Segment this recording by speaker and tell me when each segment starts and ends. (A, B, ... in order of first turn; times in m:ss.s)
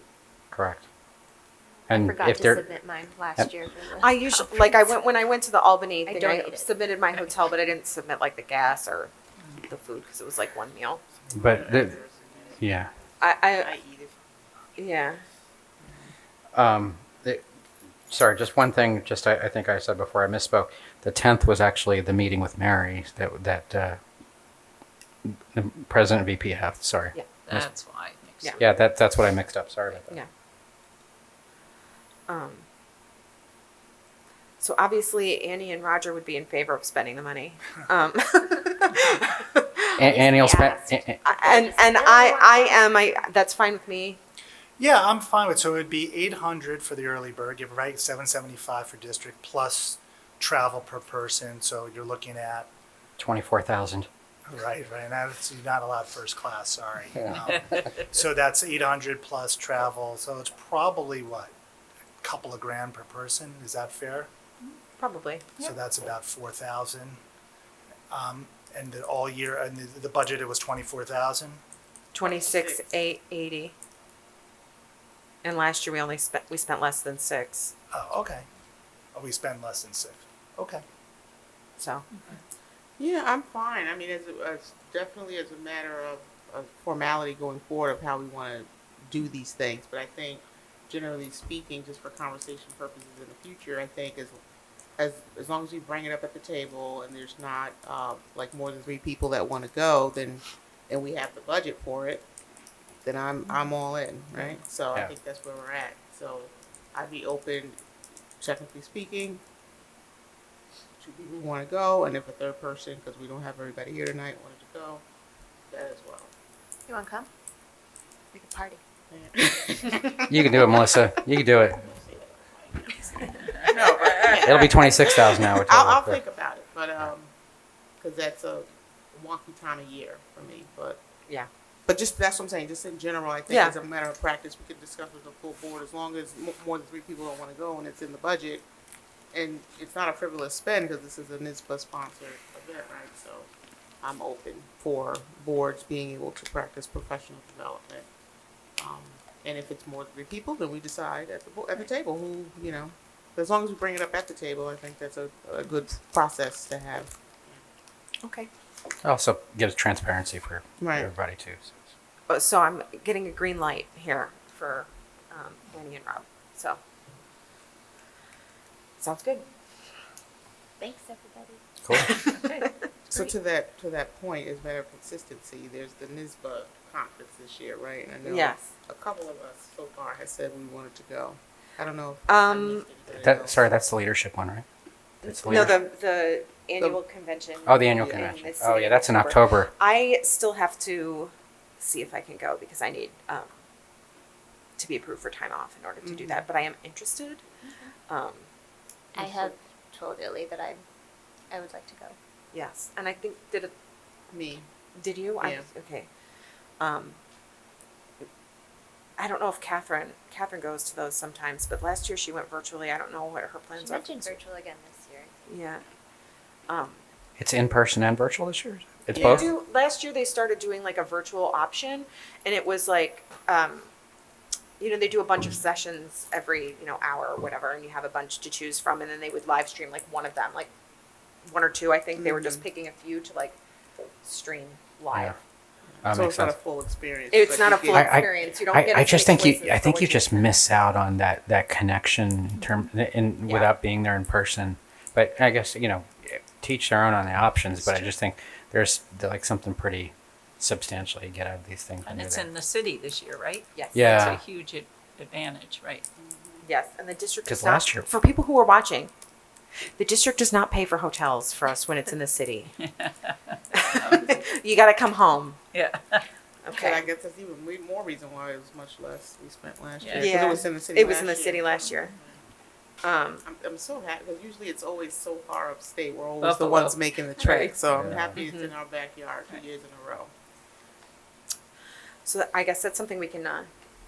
0:00.5-0:00.9 A
0:01.9-0:04.8 B
0:01.9-0:02.7 A
0:03.9-0:09.1 C
0:06.0-0:06.7 B
0:09.6-0:11.0 C
0:11.3-0:12.0 A
0:11.4-0:12.6 D
0:12.6-0:12.9 A
0:13.2-0:13.7 C
0:13.5-0:14.2 D
0:14.8-0:15.2 C
0:16.5-0:17.4 A
0:18.1-0:24.0 A
0:25.2-0:27.7 A
0:27.4-0:28.7 E
0:28.6-0:30.2 A
0:32.3-0:32.6 C
0:34.6-0:40.0 C
0:40.0-0:41.2 A
0:40.1-0:42.8 B
0:41.2-0:44.2 C
0:44.8-0:52.7 F
0:53.2-0:54.1 A
0:54.5-1:01.5 F
0:57.5-0:57.9 E
1:02.2-1:04.3 F
1:05.0-1:05.4 C
1:05.6-1:07.2 F
1:08.1-1:11.6 F
1:12.1-1:13.7 C
1:12.2-1:12.8 D
1:15.4-1:17.7 C
1:17.9-1:18.4 F
1:19.1-1:20.8 F
1:21.8-1:22.0 C
1:23.0-1:34.4 D
1:35.0-1:42.2 D
1:43.0-1:47.8 D
1:48.4-1:49.4 D
1:51.0-1:55.0 D
1:55.7-1:56.3 D
1:56.9-1:57.3 B
1:58.3-1:58.8 B
1:59.1-2:01.1 D
2:00.2-2:01.8 A
2:01.8-2:07.3 D
2:04.0-2:04.3 E
2:04.4-2:06.2 A
2:08.0-2:11.0 D
2:11.9-2:18.6 D
2:13.5-2:13.8 C
2:19.3-2:23.5 D
2:24.0-2:28.1 D
2:28.8-2:37.6 D
2:38.2-2:38.5 C
2:39.0-2:41.8 A
2:40.8-2:41.1 D
2:42.3-2:46.8 C
2:49.0-2:49.4 C
2:50.8-2:51.6 B
2:51.8-2:52.1 A
2:51.9-2:52.7 C
2:52.2-2:53.3 B
2:53.1-3:03.6 D
2:58.2-2:58.6 C
3:02.3-3:02.9 C
3:03.1-3:04.6 A
3:05.2-3:05.8 A
3:05.2-3:13.5 C
3:07.6-3:09.7 A
3:14.8-3:17.4 C
3:16.0-3:16.4 D
3:18.1-3:18.4 C
3:19.1-3:20.8 B
3:19.2-3:19.5 D
3:21.5-3:22.1 B
3:22.5-3:23.7 C
3:24.3-3:24.6 D
3:24.9-3:26.1 C
3:25.4-3:25.6 D
3:26.8-3:27.2 C
3:29.2-3:34.4 C
3:33.8-3:35.3 B
3:35.5-3:35.8 C
3:36.7-3:37.0 C
3:37.4-3:39.5 A
3:39.1-3:39.5 D
3:39.2-3:43.9 C
3:44.8-3:50.7 C
3:51.4-3:53.6 C
3:52.2-3:52.6 D
3:54.2-3:55.3 C
3:56.0-3:56.6 A
3:56.0-3:58.2 D
3:57.3-4:00.5 C
3:57.9-4:12.5 A
4:12.0-4:16.0 E
4:13.7-4:14.3 C
4:13.9-4:14.4 A
4:16.2-4:16.6 D
4:16.6-4:19.1 C
4:17.4-4:18.1 A
4:20.0-4:22.7 C
4:23.7-4:24.4 E
4:23.7-4:25.6 C
4:25.7-4:26.2 E
4:26.6-4:27.0 C
4:26.7-4:32.2 D
4:30.0-4:30.3 E
4:30.2-4:32.2 C
4:33.0-4:33.4 C
4:33.4-4:40.3 D
4:36.4-4:37.0 E
4:37.4-4:37.7 C
4:37.9-4:38.4 A
4:38.4-4:38.7 C
4:42.2-4:43.7 C